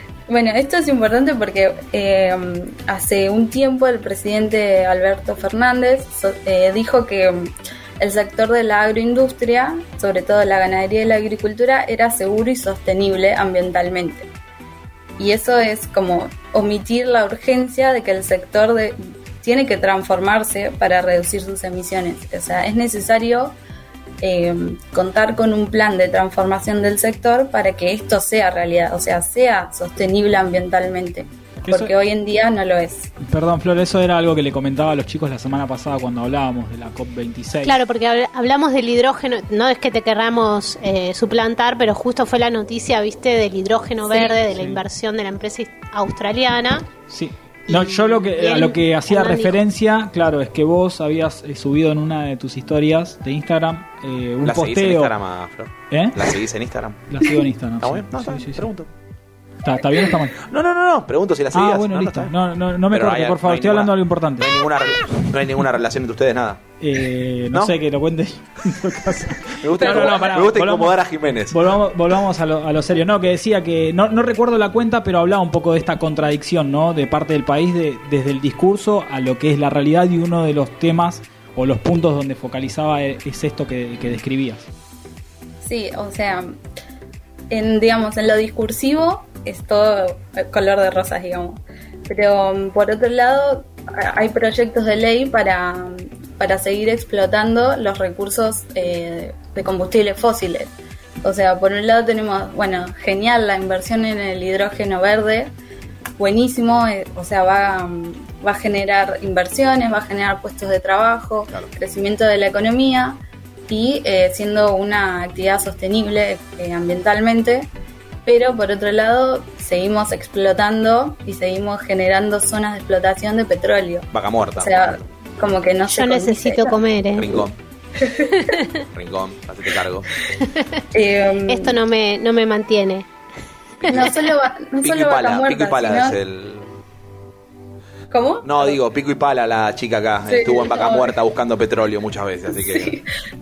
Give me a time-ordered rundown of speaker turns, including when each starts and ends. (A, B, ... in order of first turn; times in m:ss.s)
0:00.3-0:14.3 A
0:15.2-0:23.6 A
0:24.2-0:33.1 A
0:33.2-0:37.8 B
0:37.6-0:46.9 C
0:44.1-0:44.8 B
0:47.1-0:55.1 B
0:47.7-0:49.6 C
0:54.4-0:57.1 D
0:55.9-0:56.3 B
0:57.1-0:58.6 B
0:57.8-0:58.9 D
0:59.6-1:00.4 B
1:00.3-1:02.3 D
1:01.5-1:04.5 B
1:02.9-1:06.6 D
1:06.8-1:11.0 B
1:09.6-1:11.6 D
1:09.8-1:10.3 A
1:11.5-1:24.6 B
1:25.6-1:26.6 A
1:27.5-1:45.5 A
1:46.2-1:57.7 A
1:58.2-2:06.8 A
2:04.1-2:05.0 D
2:05.9-2:07.4 C
2:07.2-2:07.6 D
2:08.0-2:08.5 A
2:08.3-2:08.8 C
2:08.9-2:10.1 D
2:10.4-2:10.8 C
2:10.9-2:11.8 A
2:11.5-2:13.1 C
2:13.8-2:14.1 D
2:13.9-2:14.3 C
2:13.9-2:16.2 A
2:14.8-2:16.7 D
2:18.1-2:18.8 A
2:18.4-2:23.0 D
2:20.3-2:21.1 A
2:22.6-2:23.0 A